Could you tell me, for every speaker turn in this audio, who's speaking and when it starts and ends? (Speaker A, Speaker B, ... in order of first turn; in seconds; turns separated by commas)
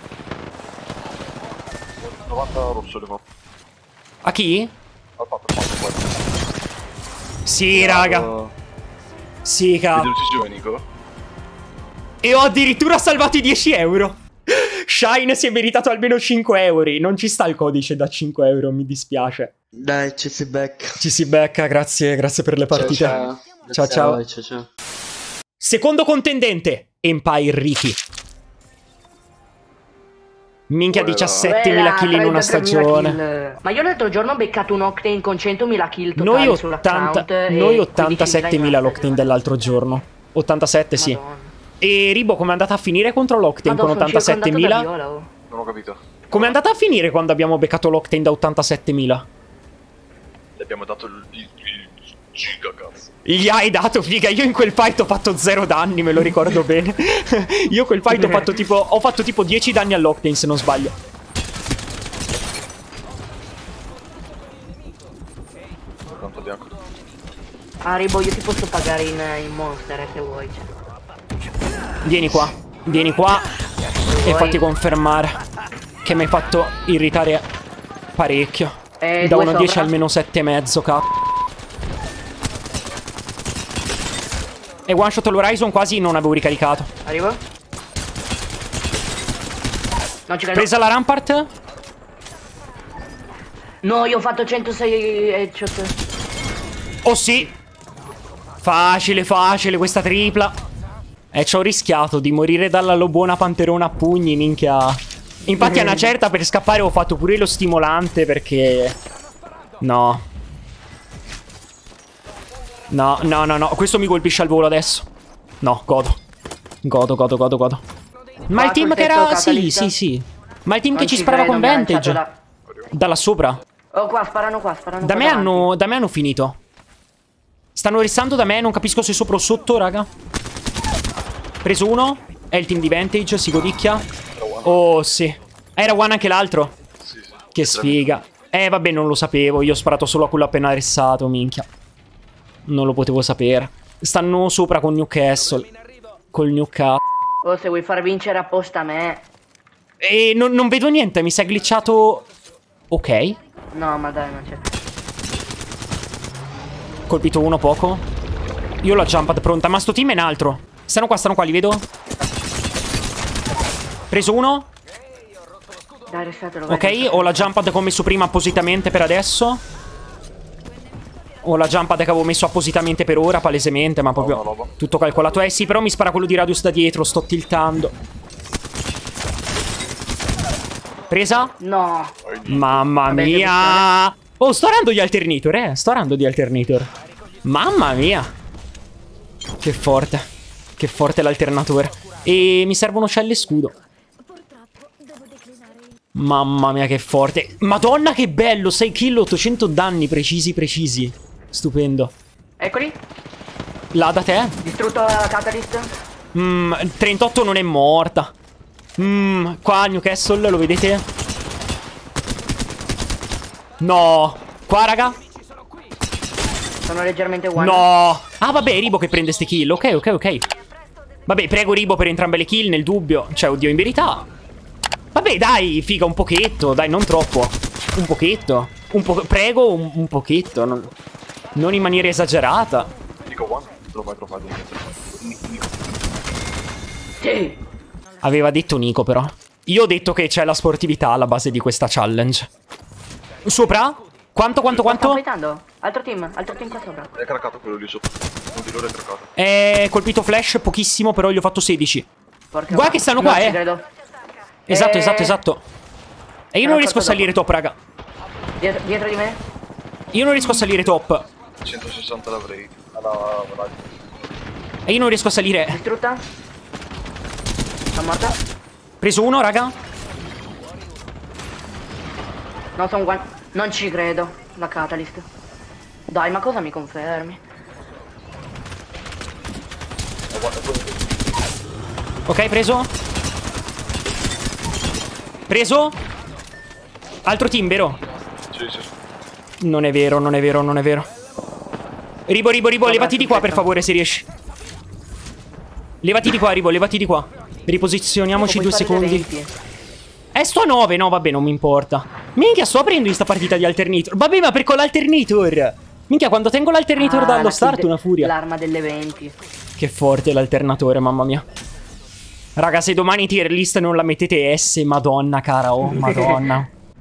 Speaker A: 2.0-3.2, Speaker B: 4.2-4.7, Speaker A: 5.2-6.2, Speaker B: 7.4-8.3, Speaker C: 7.7-8.5, Speaker B: 9.4-10.1, Speaker A: 9.9-10.8, Speaker B: 12.2-19.5, Speaker C: 19.7-21.1, Speaker B: 21.0-23.2, Speaker C: 22.7-24.7, Speaker A: 22.7-23.3, Speaker B: 23.7-24.2, Speaker B: 25.6-27.9, Speaker B: 30.7-33.2, Speaker A: 30.9-31.5, Speaker D: 31.4-39.4, Speaker B: 36.1-41.2, Speaker D: 41.0-41.5, Speaker B: 41.8-44.9, Speaker D: 43.6-45.3, Speaker A: 45.5-46.6, Speaker B: 46.3-49.3, Speaker A: 50.6-53.1, Speaker B: 53.2-60.9, Speaker A: 66.1-66.7, Speaker D: 67.8-70.7, Speaker B: 72.0-73.4, Speaker D: 74.1-74.6, Speaker B: 74.2-75.4, Speaker B: 76.0-77.5, Speaker B: 78.2-81.1, Speaker D: 79.0-79.9, Speaker B: 84.9-86.9, Speaker D: 87.0-87.4, Speaker D: 90.3-90.7, Speaker B: 90.5-91.5, Speaker D: 93.8-96.0, Speaker B: 97.0-97.6, Speaker B: 98.6-100.6, Speaker B: 101.3-109.0, Speaker D: 105.6-106.0, Speaker B: 109.8-110.2, Speaker B: 112.9-115.1, Speaker B: 115.6-116.2, Speaker B: 116.8-117.8, Speaker B: 118.5-122.2, Speaker D: 118.5-119.9, Speaker D: 120.9-122.3, Speaker A: 122.7-122.9, Speaker B: 122.9-123.6, Speaker D: 123.9-125.7, Speaker B: 125.0-126.6, Speaker B: 127.8-130.1, Speaker B: 131.6-134.1, Speaker A: 134.3-134.8, Speaker B: 134.6-136.7, Speaker A: 137.0-138.2, Speaker B: 137.5-141.7, Speaker B: 142.7-145.7, Speaker B: 146.3-147.0, Speaker D: 147.4-149.2, Speaker B: 150.0-152.2, Speaker B: 152.9-153.4, Speaker D: 153.7-154.6, Speaker B: 157.1-158.0, Speaker B: 158.8-161.8, Speaker B: 164.1-164.7, Speaker D: 166.1-167.5, Speaker B: 166.7-169.6, Speaker B: 171.4-177.9, Speaker A: 174.2-174.7, Speaker B: 181.1-181.5, Speaker D: 181.6-182.2, Speaker A: 182.2-182.9, Speaker B: 182.5-186.9, Speaker D: 183.1-183.9, Speaker B: 187.4-188.3, Speaker B: 189.6-193.7, Speaker B: 196.1-202.1, Speaker D: 202.6-203.0, Speaker B: 203.9-204.6, Speaker D: 204.6-205.9, Speaker B: 206.3-208.3, Speaker B: 209.0-211.0, Speaker B: 213.8-215.2, Speaker D: 216.8-217.9, Speaker B: 217.5-220.4, Speaker B: 221.2-224.3, Speaker B: 225.1-230.9, Speaker B: 231.6-232.9, Speaker A: 233.2-235.7, Speaker D: 237.2-237.6, Speaker B: 238.2-242.5, Speaker B: 243.4-245.2, Speaker D: 244.7-247.1, Speaker A: 247.1-249.3, Speaker B: 249.3-252.1, Speaker D: 252.5-253.8, Speaker B: 252.7-253.6, Speaker D: 254.7-255.4, Speaker B: 254.7-255.6, Speaker B: 256.5-257.8, Speaker D: 256.6-257.3, Speaker D: 258.6-259.4, Speaker B: 260.1-261.2, Speaker A: 261.6-263.9, Speaker B: 264.9-265.8, Speaker D: 265.7-266.2, Speaker D: 267.9-268.4, Speaker B: 269.0-269.7, Speaker D: 272.8-275.2, Speaker D: 276.1-277.4, Speaker A: 280.3-281.1, Speaker B: 282.2-282.9, Speaker B: 285.5-286.0, Speaker B: 287.2-288.0, Speaker A: 288.5-288.9, Speaker B: 289.6-291.1, Speaker B: 292.3-294.2, Speaker D: 292.8-293.6, Speaker B: 296.0-299.3, Speaker D: 298.4-299.5, Speaker B: 300.3-308.3, Speaker D: 306.9-309.3, Speaker B: 309.8-311.4, Speaker B: 312.6-316.7, Speaker D: 315.8-316.4